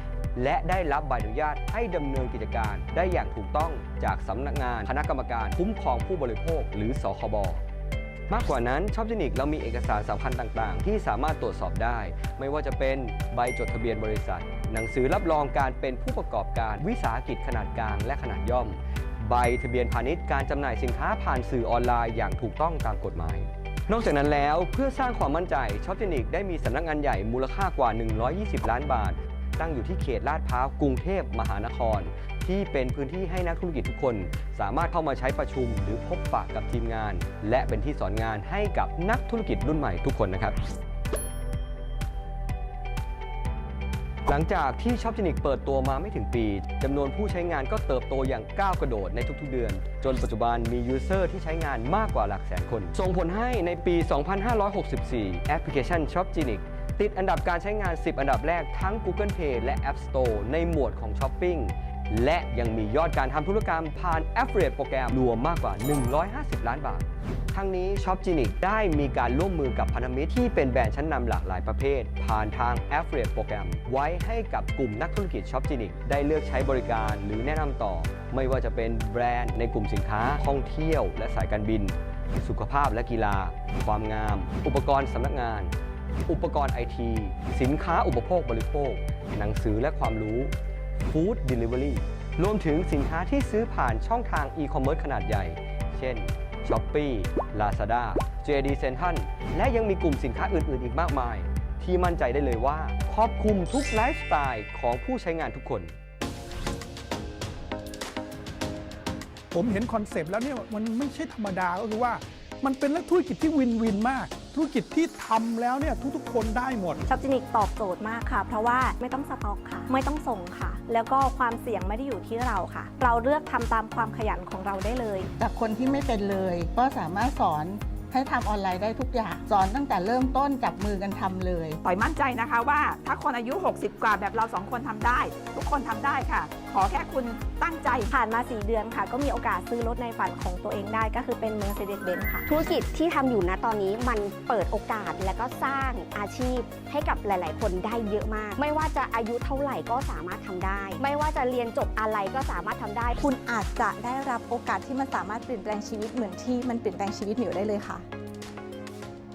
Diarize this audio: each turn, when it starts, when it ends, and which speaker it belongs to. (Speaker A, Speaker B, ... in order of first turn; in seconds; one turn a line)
Speaker A: 0.3-7.6
Speaker A: 8.3-40.6
Speaker A: 44.2-85.7
Speaker A: 86.3-105.9
Speaker B: 109.5-117.0
Speaker C: 117.1-125.3
Speaker D: 125.4-131.8
Speaker E: 131.8-138.1
Speaker C: 138.1-142.5
Speaker F: 142.5-153.2
Speaker G: 153.2-158.1